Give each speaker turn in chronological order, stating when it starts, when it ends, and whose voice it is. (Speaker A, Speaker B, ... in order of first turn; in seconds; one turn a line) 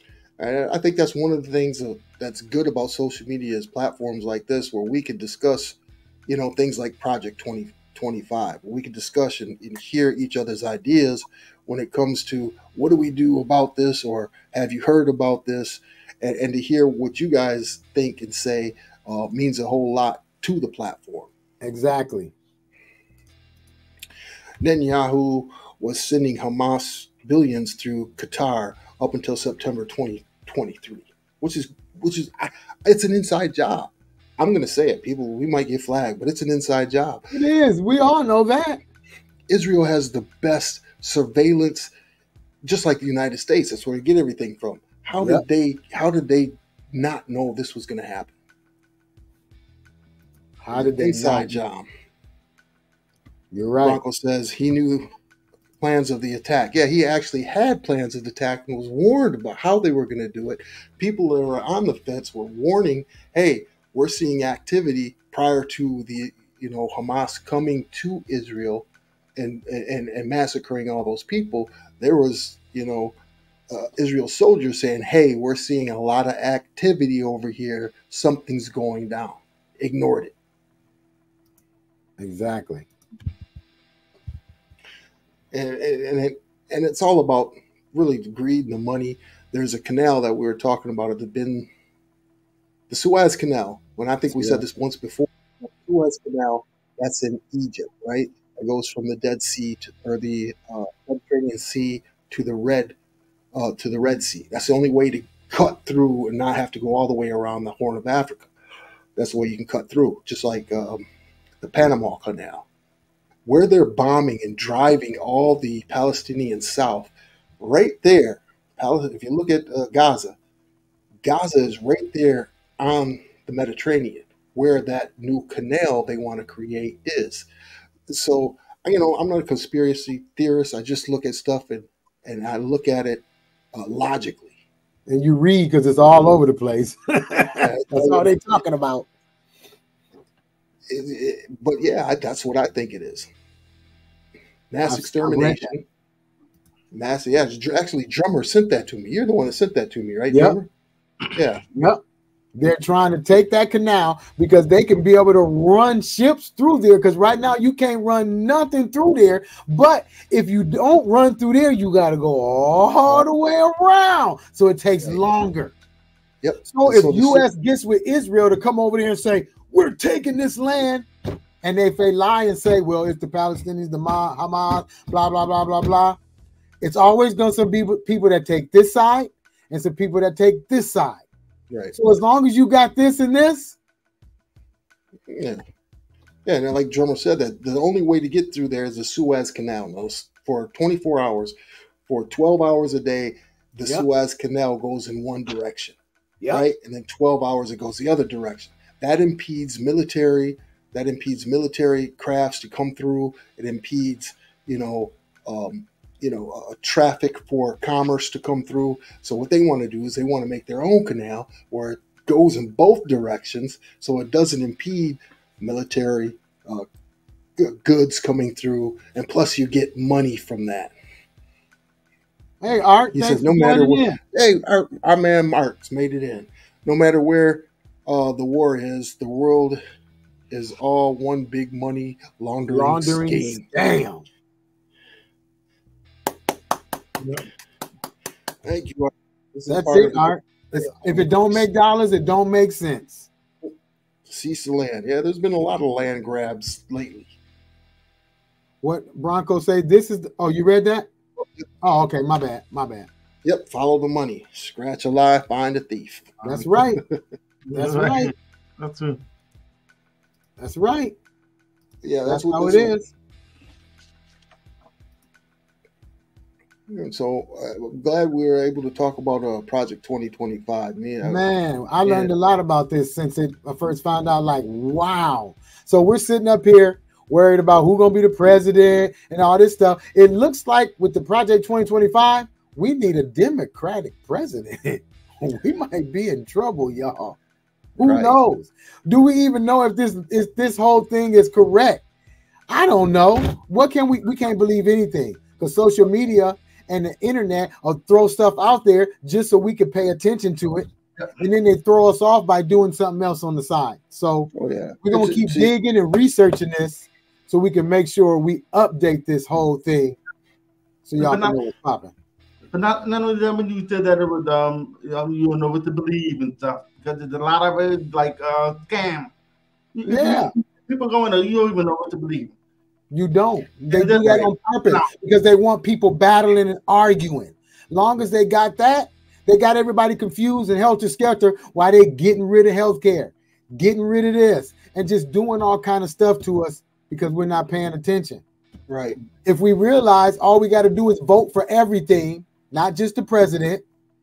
Speaker A: 0.4-21.3
Speaker B: 21.6-22.3
Speaker A: 24.6-37.3
Speaker B: 37.3-38.8
Speaker A: 39.5-41.9
Speaker A: 42.6-48.3
Speaker B: 50.6-51.6
Speaker A: 50.7-51.9
Speaker B: 53.5-54.0
Speaker A: 53.8-55.1
Speaker A: 55.8-73.2
Speaker A: 73.7-80.3
Speaker B: 82.2-82.9
Speaker A: 85.5-91.7
Speaker A: 92.9-103.0
Speaker B: 94.3-94.7
Speaker A: 103.5-108.5
Speaker A: 109.2-111.0
Speaker A: 111.6-112.7
Speaker A: 113.5-120.4
Speaker A: 121.2-127.5
Speaker A: 128.1-134.5
Speaker B: 135.1-139.1
Speaker A: 137.6-138.3
Speaker A: 140.9-143.3
Speaker A: 144.7-145.8
Speaker B: 144.9-145.7
Speaker A: 146.9-150.7
Speaker B: 150.3-150.6
Speaker A: 151.3-151.6
Speaker B: 151.8-152.0
Speaker B: 152.6-165.8
Speaker A: 166.4-167.5
Speaker B: 166.7-171.1
Speaker B: 171.6-176.2
Speaker B: 176.8-181.2
Speaker B: 181.9-183.8
Speaker A: 185.3-185.6
Speaker A: 186.4-191.6
Speaker A: 192.1-196.0
Speaker A: 196.5-216.9
Speaker A: 217.6-220.9
Speaker B: 222.6-224.2
Speaker A: 223.1-229.8
Speaker A: 230.5-233.6
Speaker B: 232.7-234.3
Speaker A: 238.6-241.6
Speaker B: 239.7-243.3
Speaker A: 244.3-247.3
Speaker B: 248.8-251.1
Speaker B: 251.8-253.1
Speaker A: 253.4-257.2
Speaker B: 256.4-257.0
Speaker C: 257.7-259.2
Speaker B: 257.7-258.3
Speaker B: 260.6-261.2
Speaker A: 262.0-262.9
Speaker B: 262.3-263.1
Speaker A: 266.9-271.4
Speaker B: 271.2-287.4
Speaker A: 272.0-272.3
Speaker B: 288.0-292.0
Speaker A: 288.0-288.4
Speaker B: 292.7-304.5
Speaker A: 304.5-305.7
Speaker B: 305.0-310.2
Speaker B: 311.1-312.1
Speaker C: 311.2-311.5
Speaker C: 312.7-319.3
Speaker C: 319.9-322.5
Speaker B: 320.1-320.5
Speaker B: 323.1-338.4
Speaker C: 323.9-325.1
Speaker A: 338.9-339.2
Speaker B: 339.4-343.9